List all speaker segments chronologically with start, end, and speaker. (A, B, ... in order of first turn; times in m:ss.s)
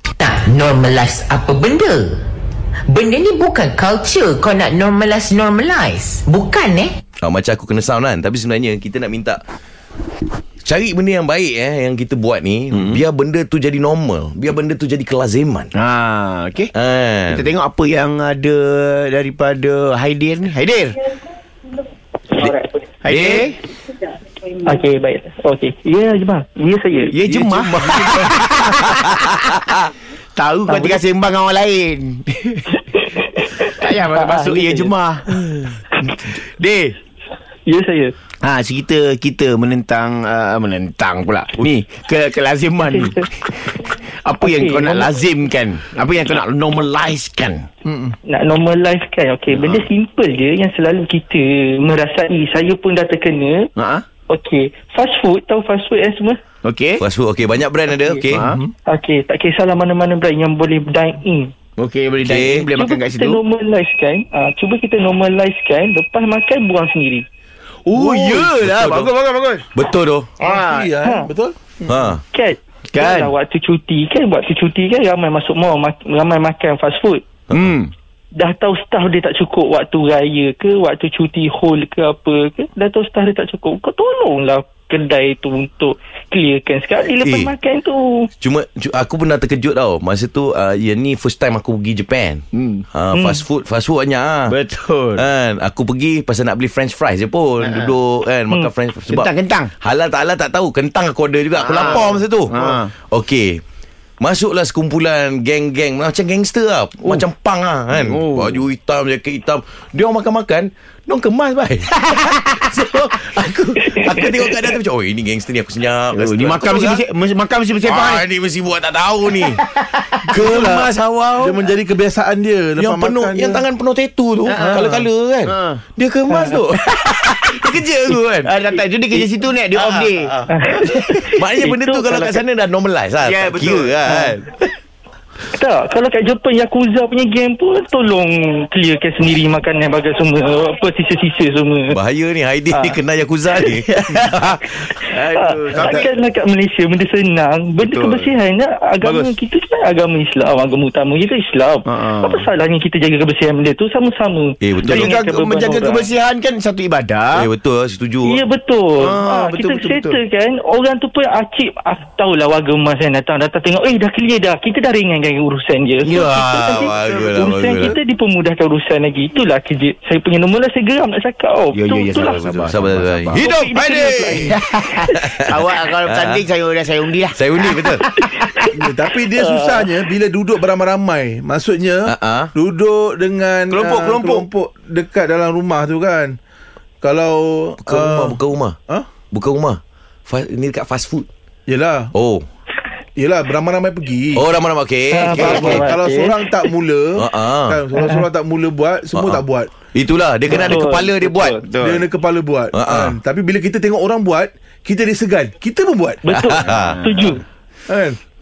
0:00.2-0:02.2 A
0:02.9-0:07.0 A
0:07.2-0:09.4 B
0:10.6-0:15.7 B
0:12.7-0:13.0 C
0:15.7-0:16.7 C
0:16.7-0:17.5 B
0:17.3-0:21.0 C
0:22.4-0:22.8 D
0:23.0-0:23.6 C
0:23.1-0:23.5 B
0:24.6-0:27.2 D
0:27.1-0:29.7 C
0:27.2-0:29.9 B
0:30.4-0:32.7 C
0:30.7-0:31.0 D
0:32.8-0:34.9 D
0:33.6-0:35.4 C
0:35.4-0:35.7 B
0:36.0-0:36.9 C
0:37.7-0:38.1 D
0:38.4-0:47.7 C
0:42.8-0:43.3 D
0:44.4-0:45.1 D
0:47.8-0:48.1 E
0:48.2-0:53.7 D
0:49.5-0:49.9 C
0:53.8-0:54.0 C
0:54.3-0:56.4 D
0:56.6-0:57.0 C
0:57.0-0:58.5 B
0:58.3-0:58.6 C
0:58.3-0:58.7 E
0:58.9-1:01.5 D
1:01.8-1:03.4 C
1:02.2-1:02.7 B
1:02.8-1:07.2 D
1:07.9-1:09.7 C
1:07.9-1:08.4 E
1:08.4-1:09.1 B
1:09.7-1:10.3 B
1:10.4-1:10.9 C
1:10.4-1:12.1 E
1:11.0-1:11.3 D
1:11.9-1:12.2 B
1:12.3-1:17.2 D
1:12.9-1:13.3 C
1:17.5-1:17.7 B
1:17.5-1:17.9 C
1:18.3-1:28.3 D
1:27.2-1:27.5 B
1:28.4-1:34.5 B
1:32.5-1:32.8 C
1:33.1-1:33.4 D
1:34.5-1:35.2 C
1:35.2-1:43.6 B
1:37.6-1:37.9 C
1:39.1-1:39.7 C
1:41.6-1:42.9 C
1:44.2-1:57.0 B
1:47.9-1:48.6 C
1:52.1-1:52.6 C
1:56.1-1:58.2 C
1:57.8-1:59.6 B
1:59.4-2:00.6 C
2:00.3-2:01.6 B
2:00.3-2:03.6 E
2:02.8-2:08.5 B
2:04.5-2:05.8 C
2:04.5-2:05.0 E
2:06.3-2:06.6 D
2:08.4-2:10.3 C
2:09.1-2:14.7 B
2:10.5-2:12.4 D
2:13.2-2:14.1 C
2:15.5-2:22.0 D
2:21.9-2:24.8 B
2:22.7-2:23.0 D
2:23.7-2:24.3 C
2:24.8-2:36.1 D
2:25.0-2:26.1 C
2:25.7-2:26.0 B
2:27.8-2:28.3 C
2:29.0-2:29.3 C
2:31.8-2:32.5 C
2:34.6-2:35.2 B
2:34.8-2:37.5 C
2:37.3-2:38.4 B
2:38.2-2:52.5 D
2:39.0-2:40.2 C
2:46.0-2:48.0 B
2:51.7-2:53.5 C
2:52.4-2:54.6 B
2:53.3-2:54.6 D
2:54.3-2:58.6 C
2:55.1-2:56.4 B
2:57.3-2:58.0 B
2:58.2-2:58.7 D
2:58.7-3:06.4 E
2:59.4-2:59.9 D
3:02.0-3:02.5 B
3:03.7-3:04.5 C
3:07.0-3:09.1 E
3:07.8-3:08.8 B
3:09.3-3:11.3 B
3:11.7-3:12.1 E
3:12.1-3:12.4 B
3:13.2-3:14.5 E
3:14.3-3:15.9 B
3:15.1-3:16.7 D
3:15.2-3:19.7 E
3:17.2-3:17.8 B
3:18.0-3:18.3 D
3:19.1-3:19.4 B
3:19.9-3:21.6 B
3:20.5-3:21.6 D
3:21.6-3:22.1 C
3:21.8-3:26.5 E
3:22.7-3:23.2 B
3:26.2-3:27.4 D
3:26.3-3:27.2 B
3:26.6-3:27.4 C
3:27.9-3:28.2 E